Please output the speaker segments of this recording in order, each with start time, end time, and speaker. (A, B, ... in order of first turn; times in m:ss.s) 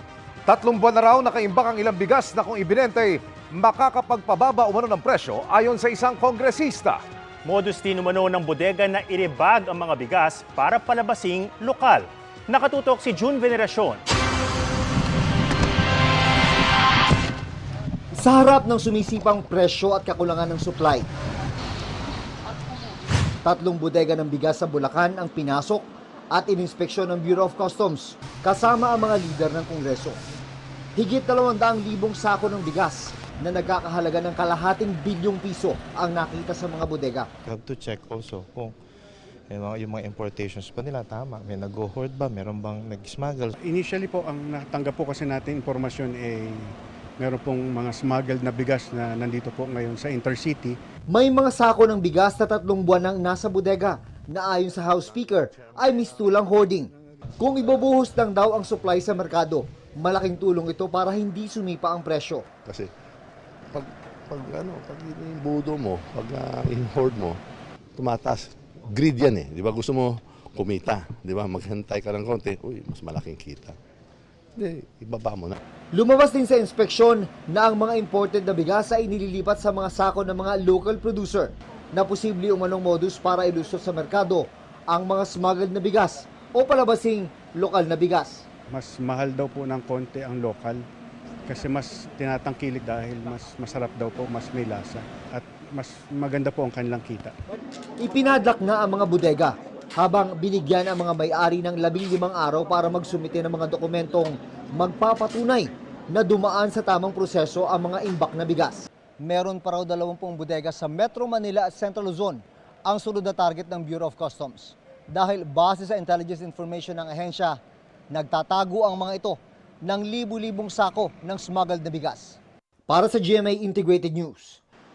0:00.5-0:07.0 A
0:07.5-0:14.0 B
0:18.2-0:21.1 C
0:23.4-0:30.2 C
0:31.0-0:37.3 C
0:37.5-0:38.8 D
0:39.5-0:43.5 D
0:43.6-0:50.8 E
0:51.1-1:02.5 C
1:03.7-1:07.4 F
1:08.0-1:13.8 F
1:14.6-1:15.6 F
1:15.9-1:28.4 C
1:28.7-1:30.8 E
1:31.5-1:37.3 E
1:38.0-1:57.6 C
1:58.1-2:04.6 C